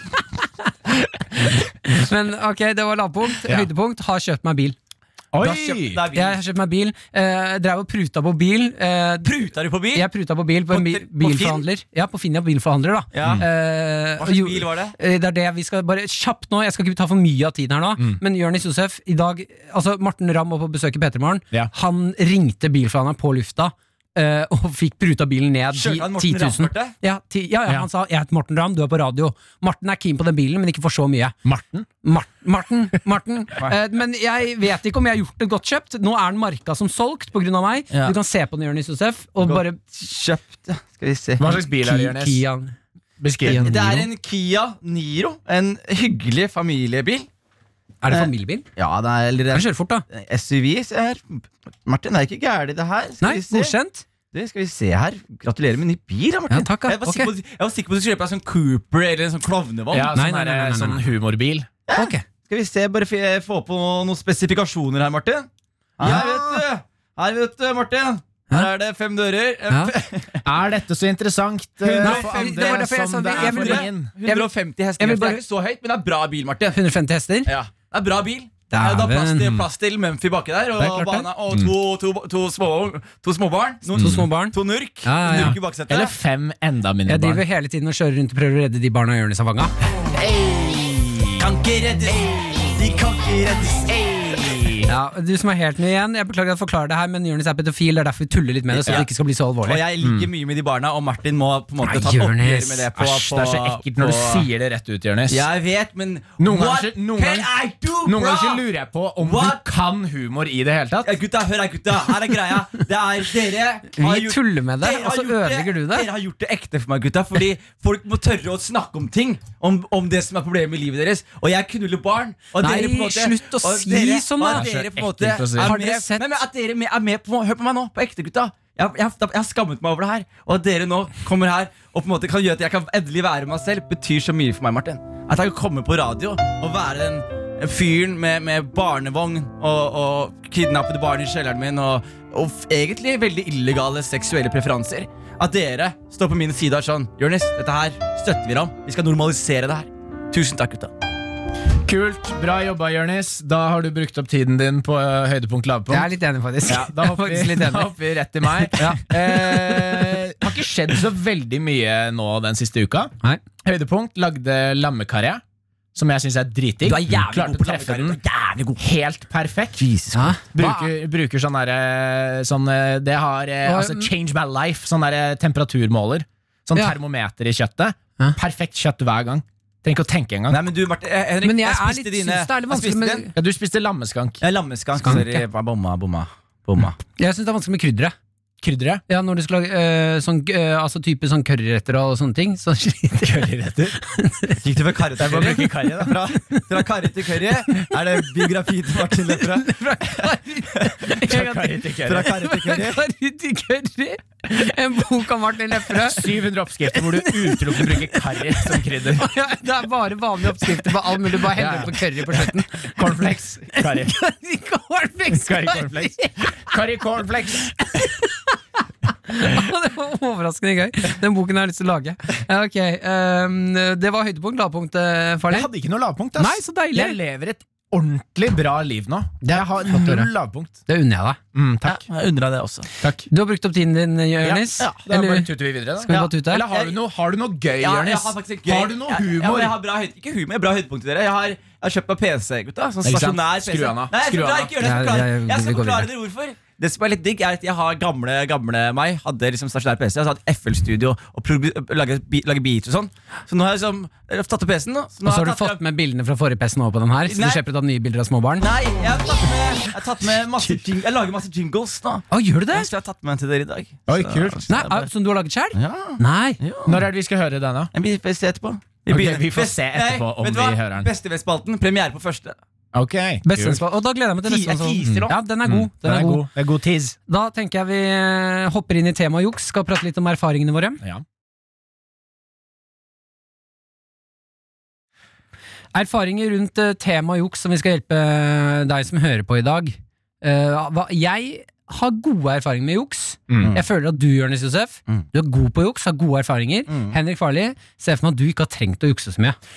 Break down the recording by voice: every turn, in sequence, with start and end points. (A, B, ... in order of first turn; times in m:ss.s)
0:00.9-0:04.8 A
0:05.3-0:06.0 B
0:05.4-0:06.4 C
0:06.1-0:09.3 A
0:09.2-0:10.1 C
0:09.9-0:31.3 A
0:10.7-0:11.6 C
0:13.1-0:13.5 C
0:14.2-0:14.9 C
0:25.7-0:26.9 C
0:31.4-0:31.9 B
0:32.0-0:39.8 A
0:37.9-0:38.2 C
0:39.4-0:41.5 C
0:41.4-0:42.4 B
0:41.8-0:42.8 A
0:43.2-0:44.0 B
0:43.4-0:44.0 A
0:43.5-0:47.3 C
0:48.0-0:48.6 A
0:48.1-0:53.8 C
0:49.5-0:50.0 A
0:53.2-0:54.0 A
0:54.3-1:00.1 C
0:56.5-0:57.3 A
0:59.9-1:01.7 B
1:00.0-1:01.0 A
1:01.9-1:05.5 C
1:01.9-1:02.2 A
1:06.0-1:10.4 C
1:06.0-1:06.6 B
1:10.4-1:14.1 B
1:11.8-1:16.8 C
1:12.0-1:15.4 A
1:16.7-1:17.5 A
1:17.5-1:26.1 C
1:18.7-1:19.6 A
1:20.8-1:21.3 A
1:23.9-1:24.2 B
1:24.0-1:25.6 A
1:25.3-1:27.4 B
1:27.1-1:29.7 A
1:30.1-1:32.8 B
1:31.4-1:34.0 C
1:33.8-1:34.9 B
1:34.9-1:39.8 A
1:38.8-1:39.1 B
1:39.6-1:44.5 C
1:40.0-1:40.3 B
1:41.8-1:42.8 A
1:43.0-1:45.4 B
1:45.3-1:48.6 C
1:46.4-1:47.5 B
1:48.0-1:51.1 B
1:49.2-1:49.6 C
1:51.0-2:30.9 C
1:54.0-1:56.1 A
2:02.6-2:04.6 A
2:04.4-2:05.8 B
2:05.6-2:06.2 A
2:31.8-2:36.1 B
2:35.9-2:37.9 A
2:36.6-2:43.1 B
2:38.7-2:40.2 A
2:43.6-2:45.4 B
2:45.9-2:48.2 B
2:46.8-2:48.8 C
2:48.8-2:49.8 B
2:49.8-2:50.3 C
2:50.1-2:50.9 A
2:50.5-3:00.6 B
2:53.6-2:54.1 A
3:00.5-3:03.2 C
3:01.4-3:03.3 A
3:03.3-3:04.4 B
3:04.4-3:07.0 C
3:05.0-3:05.4 A
3:07.2-3:08.2 A
3:08.6-3:09.0 B
3:09.1-3:14.6 A
3:13.2-3:14.0 B
3:14.6-3:21.4 C
3:15.2-3:16.2 B
3:19.3-3:32.9 A
3:21.2-3:22.3 B
3:22.0-3:23.0 C
3:25.9-3:29.2 B
3:31.5-3:34.2 B
3:33.7-3:36.5 A
3:35.3-3:37.8 B
3:37.8-3:38.6 A
3:39.3-3:45.7 A
3:45.5-3:50.8 B
3:46.4-3:47.2 A
3:49.4-3:50.3 A
3:50.9-3:51.4 A
3:51.5-3:52.0 B
3:51.8-3:52.9 C
3:53.0-3:56.7 A
3:54.4-3:59.8 B
3:56.1-3:57.0 C
3:57.8-4:15.8 C
4:03.0-4:04.8 B
4:04.8-4:06.1 A
4:15.2-4:18.7 A
4:17.3-4:17.6 C
4:18.6-4:25.1 C
4:20.2-4:20.8 B
4:22.3-4:22.9 A
4:24.1-4:24.7 B
4:24.7-4:26.6 A
4:25.7-4:27.0 C
4:26.8-4:27.9 B
4:27.9-4:32.6 C
4:29.1-4:31.1 B
4:32.9-4:33.8 B
4:33.4-4:36.5 A
4:34.4-4:35.4 C
4:35.0-4:37.2 B
4:37.3-4:41.0 A
4:45.9-4:59.6 A
4:53.5-4:53.8 B
4:56.9-4:57.2 C